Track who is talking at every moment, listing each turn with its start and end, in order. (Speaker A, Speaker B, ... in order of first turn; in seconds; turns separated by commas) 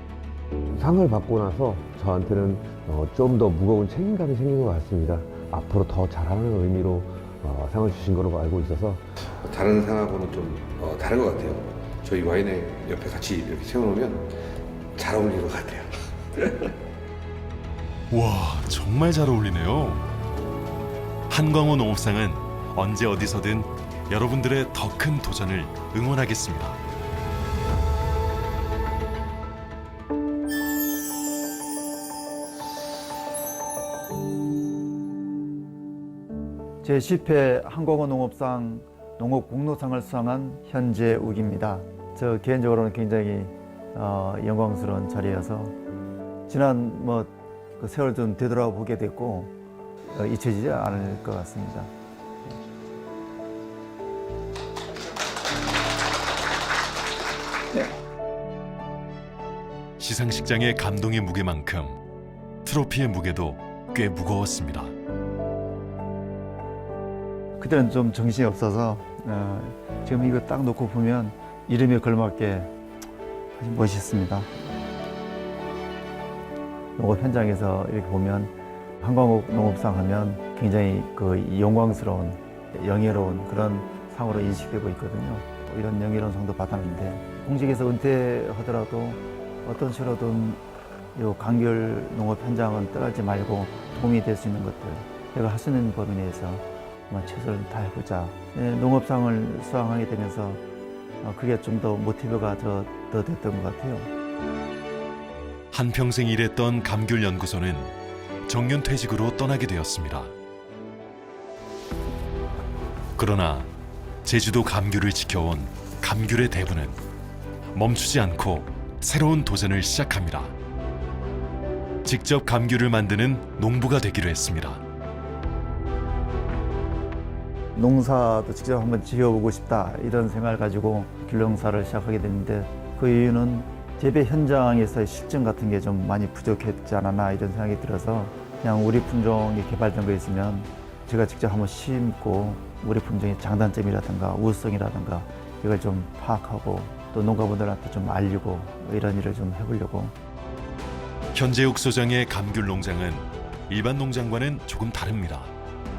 Speaker A: 0.7-11.3, Speaker B: 9.7-14.2, Speaker A: 13.2-13.8, Speaker A: 15.0-15.6, Speaker B: 15.0-15.8, Speaker C: 18.1-20.1, Speaker C: 21.3-26.8, Speaker D: 36.8-45.7, Speaker D: 46.5-49.5, Speaker D: 50.1-51.9, Speaker C: 60.0-62.0, Speaker C: 62.6-64.9, Speaker D: 67.6-72.7, Speaker D: 73.6-74.5, Speaker D: 77.0-90.6, Speaker D: 91.2-100.6, Speaker D: 101.2-104.1, Speaker C: 105.7-107.9, Speaker C: 108.5-110.3, Speaker C: 113.2-113.7, Speaker C: 114.2-117.0, Speaker C: 117.7-120.5, Speaker C: 122.0-124.8, Speaker D: 127.8-150.1, Speaker C: 151.3-155.5